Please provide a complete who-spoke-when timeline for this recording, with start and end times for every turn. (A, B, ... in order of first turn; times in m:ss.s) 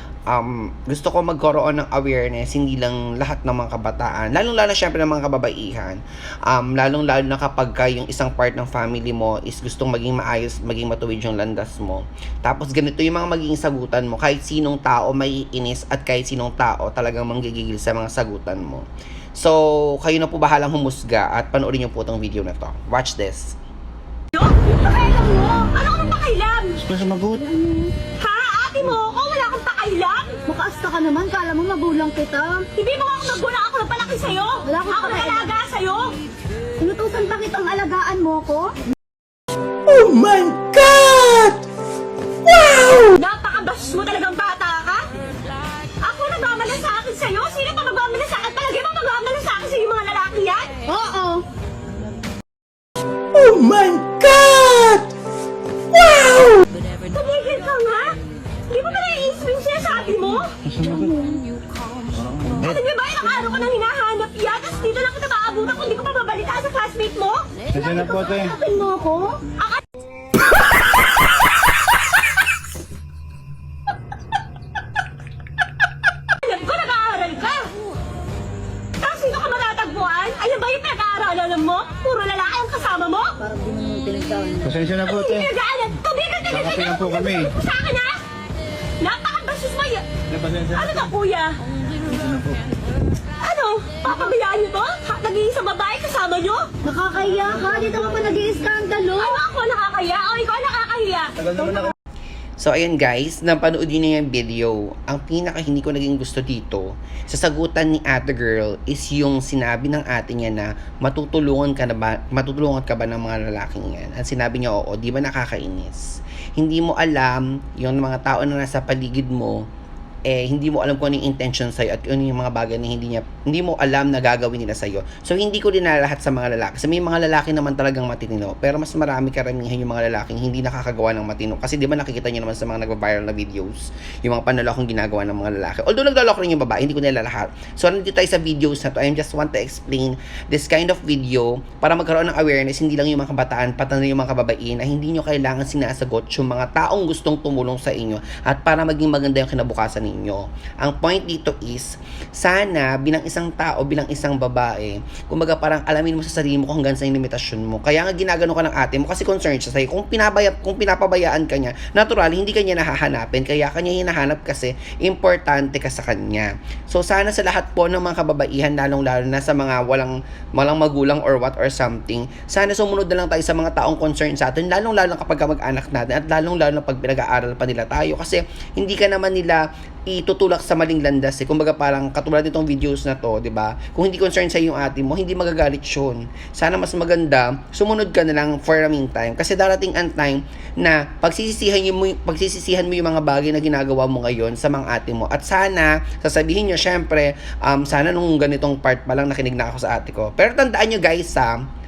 0:00.3-0:23.6 A
0:24.3-0:26.8 B
0:26.8-0:27.4 C
0:27.3-0:27.9 D
0:28.2-0:30.4 B
0:30.4-0:32.7 D
0:32.8-0:36.2 B
0:34.6-0:35.5 D
0:36.8-0:38.7 D
0:39.8-0:41.6 C
0:42.5-0:43.1 C
0:43.1-0:45.1 B
0:46.0-0:50.8 B
0:50.9-0:51.4 D
0:53.3-0:55.1 C
0:56.0-0:56.6 C
0:57.1-0:58.2 B
0:58.7-1:00.5 B
1:00.6-1:01.1 C
1:00.9-1:01.4 D
1:02.4-1:02.7 C
1:02.5-1:07.6 B
1:07.7-1:08.5 C
1:07.8-1:09.4 D
1:09.5-1:09.8 B
1:16.3-1:17.7 B
1:19.0-1:23.4 B
1:23.4-1:24.7 D
1:24.6-1:25.5 C
1:25.0-1:28.2 B
1:26.5-1:27.5 C
1:29.0-1:31.6 B
1:30.3-1:30.8 C
1:32.1-1:32.5 C
1:33.4-1:36.7 B
1:36.8-1:39.4 D
1:39.2-1:41.5 B
1:42.6-1:59.6 A
2:00.3-3:21.6 A